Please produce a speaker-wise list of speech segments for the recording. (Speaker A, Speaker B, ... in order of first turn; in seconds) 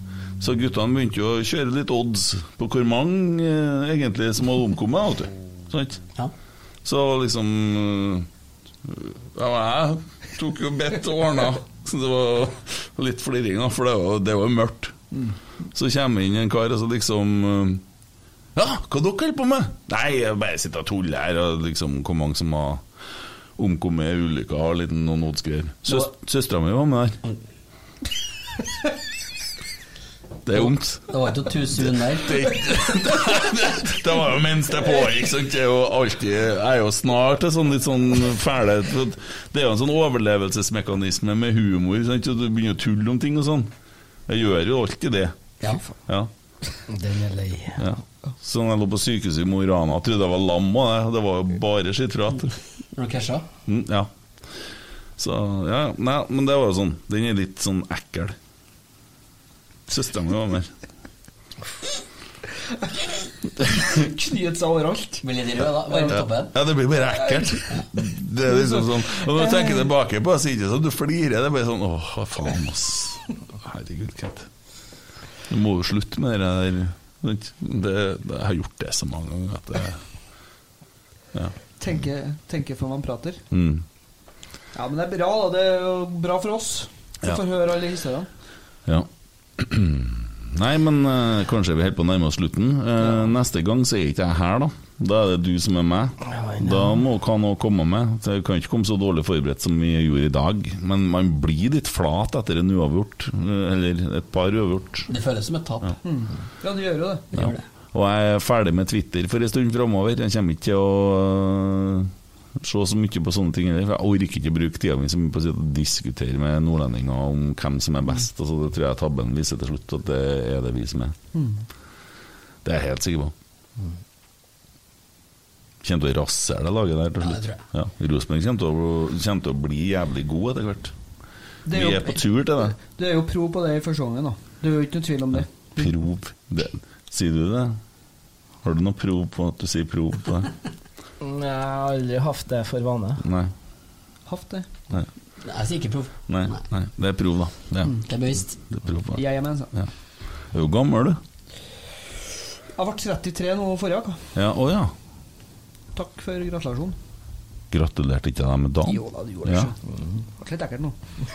Speaker A: 0.4-6.0, 6.8-8.3, 8.8-14.9, 15.7-17.8, 18.5-22.8, 23.6-27.2, 30.4-31.1, 31.8-43.7, 44.3-45.3, 47.8-52.5, 53.6-54.1, 55.2-58.3, 59.9-60.7, 66.1-74.5, 75.5-80.0, 83.5-83.8, 88.8-105.1, 107.4-112.1, 112.6-121.2, 122.6-123.3, 125.8-130.9, 131.7-132.8, 135.3-137.8, 138.6-140.5, 143.2-143.5, 146.3-148.0, 148.7-149.2, 150.5-151.2, 154.3-154.9, 157.7-159.7
Speaker B: 30.5-32.4, 52.9-53.5, 65.2-66.5, 105.1-105.9, 107.3-107.6, 127.2-127.6, 145.4-146.6, 148.0-148.5
Speaker C: 46.9-47.8, 96.2-97.0, 141.2-143.2
Speaker D: 63.7-65.2, 68.5-69.8, 81.8-83.4, 84.7-88.3, 93.0-93.3, 106.0-107.3, 121.3-121.6, 131.6-135.9, 144.2-144.7, 149.1-149.7, 152.8-154.2, 155.9-156.9, 158.8-159.8, 160.3-160.9